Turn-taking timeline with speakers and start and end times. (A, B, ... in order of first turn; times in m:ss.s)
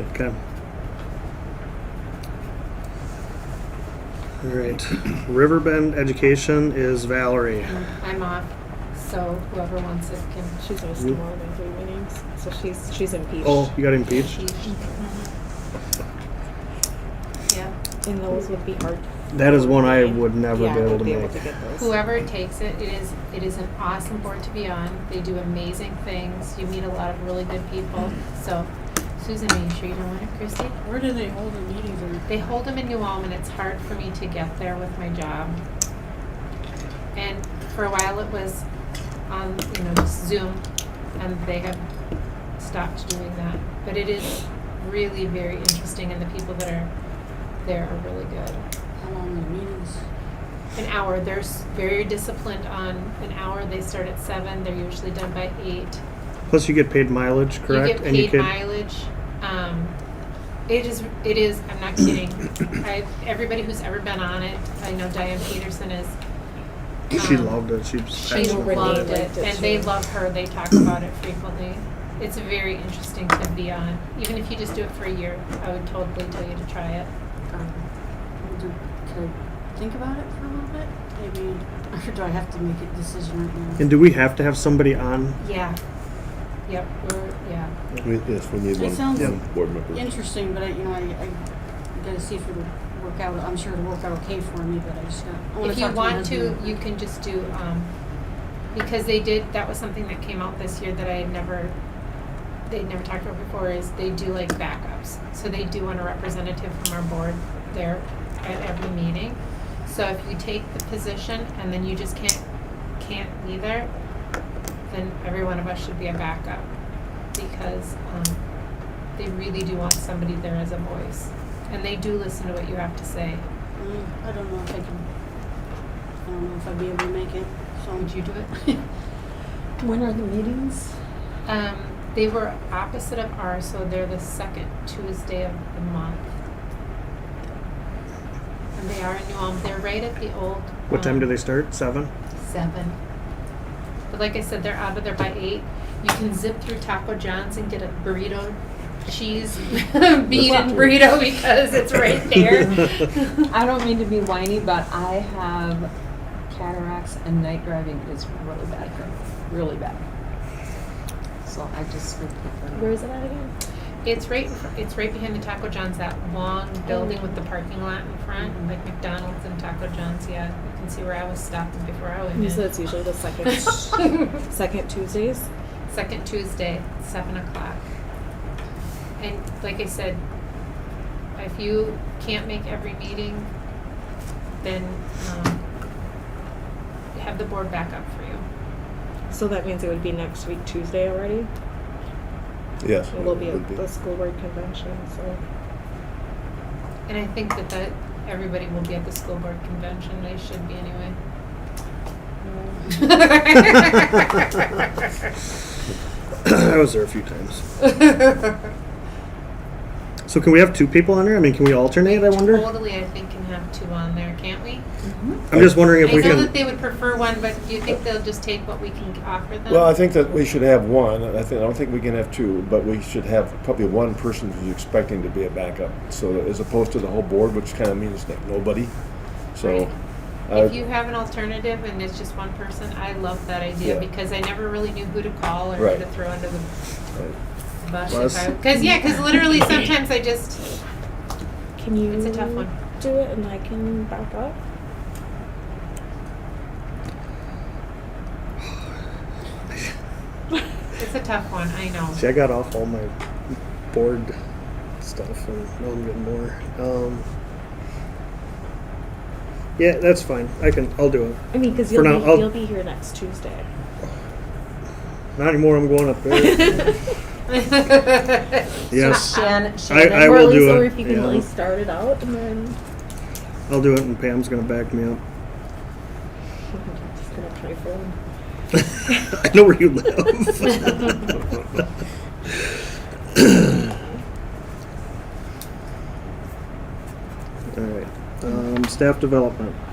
0:04.4-0:07.8 A
0:07.7-0:10.6 B
0:10.6-0:13.7 C
0:13.4-0:14.4 A
0:14.1-0:14.9 B
0:17.5-0:17.7 B
0:18.0-0:21.9 C
0:19.3-0:21.3 A
0:21.8-0:30.8 B
0:30.8-0:32.2 D
0:32.3-0:35.6 B
0:37.1-0:38.6 B
0:39.3-0:40.6 B
0:41.2-0:41.8 B
0:42.6-0:46.9 B
0:47.6-0:48.6 B
0:49.0-0:50.0 D
0:50.7-0:56.0 B
0:56.5-0:58.5 A
0:57.7-0:59.9 B
1:00.7-1:06.1 B
1:07.1-1:07.6 B
1:07.2-1:09.1 A
1:08.2-1:17.1 B
1:08.2-1:09.9 C
1:17.5-1:17.8 D
1:18.4-1:23.8 D
1:23.8-1:25.4 A
1:25.4-1:25.8 B
1:26.6-1:27.7 B
1:28.0-1:30.1 E
1:28.7-1:36.8 D
1:29.1-1:29.4 A
1:35.6-1:37.9 B
1:38.7-1:41.7 B
1:42.7-1:52.4 B
1:53.0-1:53.9 B
1:54.9-1:56.7 B
1:57.3-1:58.4 B
1:59.2-2:03.4 B
2:03.8-2:05.0 D
2:06.2-2:08.8 D
2:08.0-2:08.6 B
2:09.8-2:10.9 F
2:11.4-2:16.3 B
2:18.8-2:21.3 B
2:20.9-2:22.1 A
2:22.4-2:23.0 B
2:24.1-2:33.4 B
2:30.3-2:31.0 E
2:33.5-2:35.9 F
2:36.5-2:40.0 F
2:41.4-2:43.0 F
2:42.7-2:43.5 C
2:44.0-2:52.7 B
2:46.9-2:47.2 C
2:52.4-2:55.5 C
2:55.9-2:57.8 B
2:59.2-3:00.2 B
3:01.4-3:03.5 B
3:04.6-3:05.6 B
3:07.1-3:08.4 B
3:09.3-3:11.5 C
3:12.8-3:13.8 E
3:13.1-3:15.4 C
3:17.1-3:21.2 B
3:22.9-3:24.9 B
3:26.4-3:27.6 A
3:27.9-3:28.3 B
3:30.3-3:32.7 A
3:32.0-3:34.8 B
3:35.0-3:35.4 F
3:35.5-3:36.6 A
3:35.5-3:35.8 E
3:36.0-3:39.9 B
3:39.7-3:49.0 E
3:49.5-3:49.9 E
3:49.6-3:49.9 B
3:50.5-3:50.8 E
3:50.5-3:56.7 B
3:53.8-3:54.1 E
3:55.8-3:56.0 E
3:57.8-4:00.8 B
3:58.1-3:58.6 A
4:01.8-4:04.6 C
4:02.1-4:02.8 B
4:11.0-4:12.2 B
4:12.2-4:13.1 A
4:13.9-4:14.3 A
4:15.0-4:17.2 A
4:19.8-4:22.5 A
4:21.5-4:23.7 C
4:25.4-4:27.0 A
4:26.4-4:26.9 C
4:27.5-4:30.4 B
4:28.9-4:29.3 A
4:29.9-4:31.5 A
4:30.1-4:32.8 C
4:33.7-4:35.2 A
4:36.7-4:38.1 C
4:39.4-4:41.6 A
4:47.7-4:49.8 A